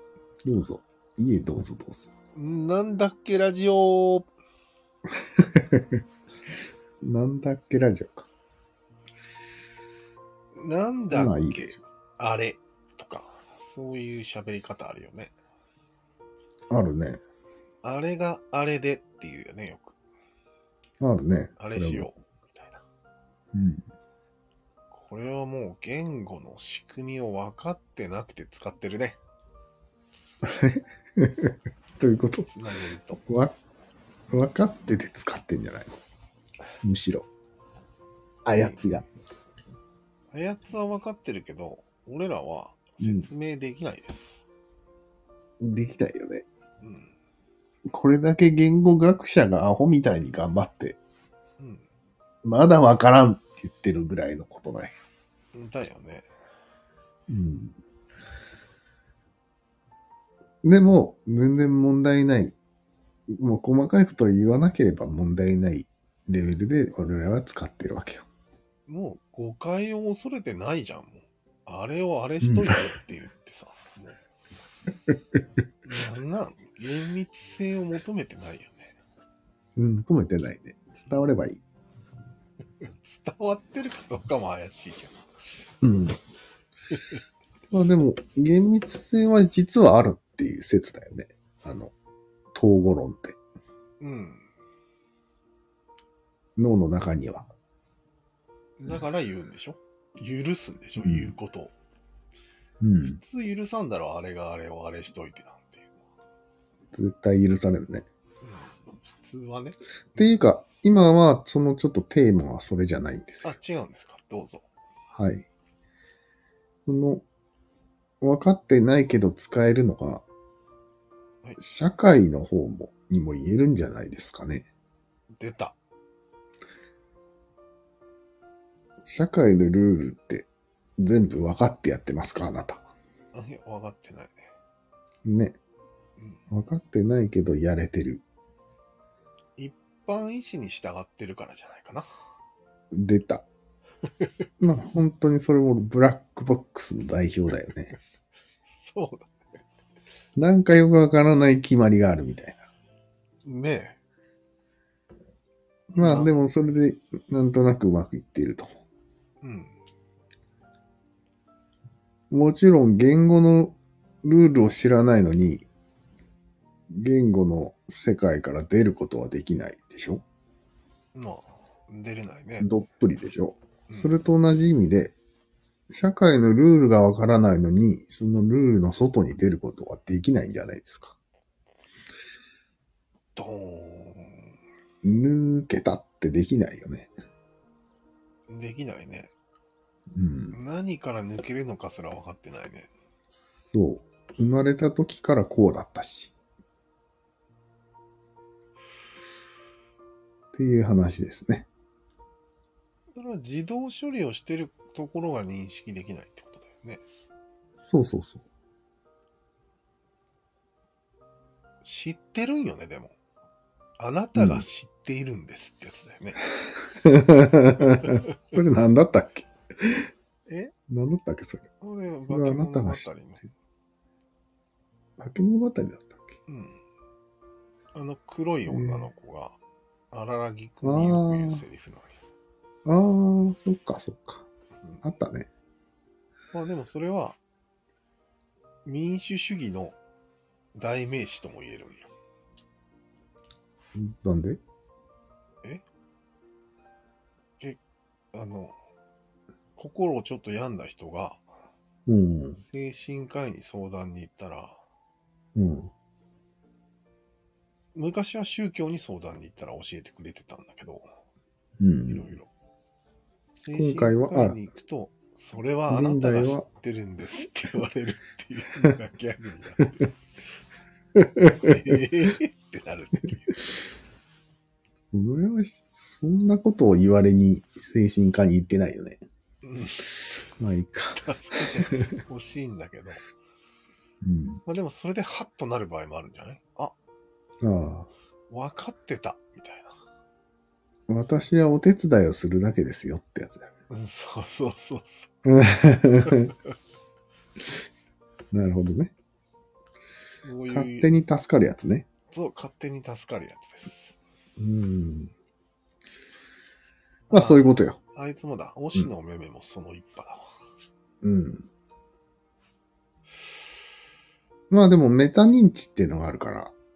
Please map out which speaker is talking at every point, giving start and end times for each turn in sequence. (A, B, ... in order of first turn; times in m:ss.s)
0:00.4-0:02.1 A
0:02.4-0:04.3 B
0:05.4-0:06.0 A
0:07.0-0:08.3 A
0:10.6-0:15.3 B
0:11.1-0:11.8 A
0:16.7-0:17.2 A
0:17.8-0:20.0 B
0:21.0-0:22.1 A
0:21.6-0:22.8 B
0:23.5-0:23.8 A
0:24.9-0:29.2 B
0:30.4-0:32.5 A
0:32.5-0:33.2 B
0:33.3-0:33.6 A
0:34.3-0:36.0 A
0:36.8-0:37.3 A
0:38.4-0:39.1 A
0:40.3-0:44.5 B
0:43.0-0:43.3 A
0:45.6-0:46.4 A
0:46.8-0:47.1 B
0:47.9-0:51.0 A
0:51.6-0:51.9 B
0:52.4-0:55.0 A
0:55.5-0:56.3 B
0:57.3-0:57.8 A
1:00.6-1:02.6 A
1:03.3-1:08.3 A
1:08.9-1:14.2 B
1:12.4-1:12.8 A
1:15.8-1:18.9 B
1:19.8-1:21.6 A
1:23.0-1:25.2 B
1:25.8-1:26.2 A
1:27.7-1:31.9 A
1:32.5-1:33.4 A
1:34.0-1:34.5 B
1:36.6-1:37.5 A
1:38.8-1:41.7 B
1:41.0-1:41.4 A
1:42.8-1:43.2 A
1:43.0-1:45.9 B
1:46.9-1:48.1 A
1:48.4-1:49.8 B
1:50.2-1:53.6 A
1:53.4-1:54.7 B
1:55.1-1:55.5 A
1:56.9-1:57.2 A
1:58.2-2:00.2 A
2:01.6-2:04.7 A
2:05.4-2:05.8 B
2:09.0-2:12.9 A
2:13.3-2:14.4 B
2:15.2-2:15.6 A
2:16.5-2:18.2 A
2:19.6-2:22.1 B
2:22.9-2:23.5 A
2:24.6-2:27.9 A
2:28.7-2:29.3 B
2:30.4-2:32.6 A
2:33.4-2:34.0 B
2:35.9-2:38.7 A
2:36.0-2:36.3 B
2:39.4-2:39.8 B
2:42.3-2:45.7 A
2:46.9-2:50.2 A
2:51.1-2:52.7 B
2:52.6-2:55.2 A
2:53.9-2:54.2 B
2:55.9-3:01.2 A
3:03.4-3:04.5 B
3:05.0-3:07.1 A
3:08.5-3:09.3 B
3:10.1-3:10.6 A
3:10.5-3:12.9 B
3:13.3-3:16.3 A
3:20.5-3:21.7 A
3:23.2-3:27.0 B
3:27.8-3:28.4 A
3:31.8-3:33.2 B
3:34.0-3:36.4 B
3:34.4-3:34.6 A
3:36.9-3:40.1 A
3:40.5-3:40.7 B
3:40.9-3:41.7 A
3:41.8-3:43.4 B
3:42.3-3:43.1 A
3:45.2-3:46.4 A
3:46.5-3:46.8 B
3:47.9-3:49.6 B
3:48.7-3:49.1 A
3:50.1-3:52.2 B
3:50.8-3:51.6 A
3:52.9-3:54.5 A
3:55.0-3:55.5 A
3:56.5-3:57.4 B
3:58.8-4:00.0 B
4:00.8-4:02.1 B
4:04.0-4:04.6 A
4:08.3-4:08.8 B
4:09.8-4:11.4 B
4:12.1-4:12.6 A
4:12.6-4:14.8 B
4:15.6-4:15.9 A
4:18.0-4:21.1 B
4:21.8-4:22.4 A
4:22.1-4:22.5 B
4:23.5-4:30.0 B
4:23.7-4:24.6 A
4:25.9-4:26.7 A
4:31.2-4:31.8 A
4:31.6-4:33.7 B
4:35.1-4:39.2 A
4:39.6-4:40.6 B
4:40.6-4:42.1 A
4:41.2-4:43.2 B
4:44.2-4:44.6 A
4:44.7-4:46.9 B
4:47.6-4:48.1 A
4:48.5-4:49.9 B
4:51.1-4:53.7 A
4:53.9-4:55.3 B
4:55.4-4:56.5 A
4:58.5-4:59.1 A
5:00.4-5:01.1 B
5:00.7-5:02.1 A
5:02.3-5:04.2 B
5:04.6-5:05.3 A
5:07.3-5:10.5 B
5:07.3-5:08.0 A
5:11.2-5:11.7 A
5:14.7-5:16.7 A